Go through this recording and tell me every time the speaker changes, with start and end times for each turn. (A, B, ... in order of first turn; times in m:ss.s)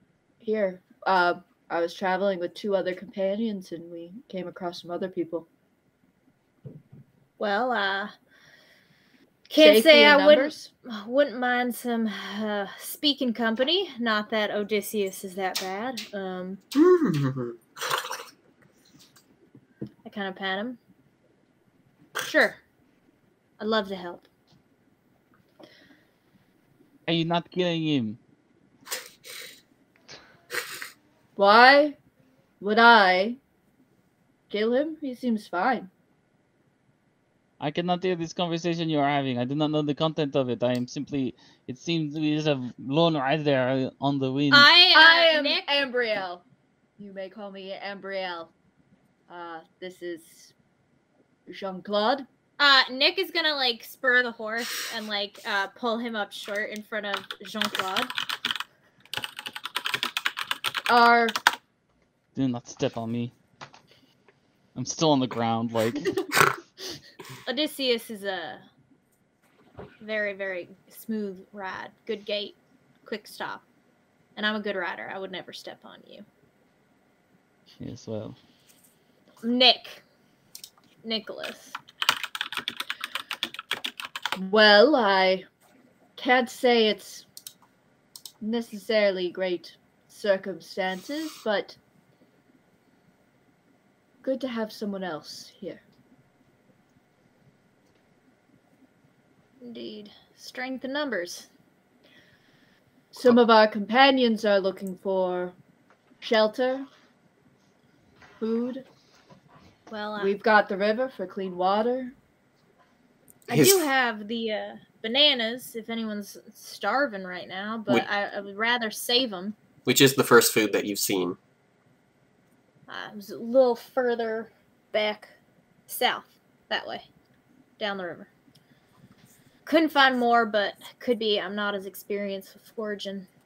0:00.4-0:05.5 A
0:07.4-0:08.1 B
0:09.5-0:16.6 B
0:09.6-0:10.6 A
0:16.7-0:18.0 C
0:20.0-0:20.8 B
0:22.2-0:22.6 B
0:23.6-0:24.3 B
0:27.1-0:28.2 D
0:31.4-0:32.0 A
0:32.6-0:33.4 A
0:34.5-0:35.9 A
0:37.6-0:44.7 D
0:44.5-0:45.8 B
0:44.9-0:46.4 A
0:47.0-0:48.5 A
0:49.3-0:50.5 A
0:51.5-0:52.3 A
0:52.6-0:58.1 B
1:00.9-1:01.3 A
1:02.3-1:03.3 D
1:04.7-1:06.2 D
1:07.4-1:08.6 B
1:10.0-1:13.6 B
1:14.4-1:16.2 B
1:17.8-1:18.4 D
1:19.4-1:20.0 B
1:21.0-1:21.8 B
1:24.4-1:25.5 A
1:26.2-1:27.2 A
1:28.4-1:31.8 A
1:34.2-1:35.8 A
1:39.6-1:41.5 B
1:43.1-1:45.6 A
1:46.2-1:46.9 A
1:48.4-1:48.8 A
1:49.9-1:50.4 B
1:50.2-1:52.1 A
1:53.5-1:59.6 B
1:53.5-1:53.8 C
1:59.8-2:01.4 C
2:02.9-2:05.3 B
2:05.9-2:07.0 B
2:07.8-2:08.3 B
2:09.6-2:13.3 B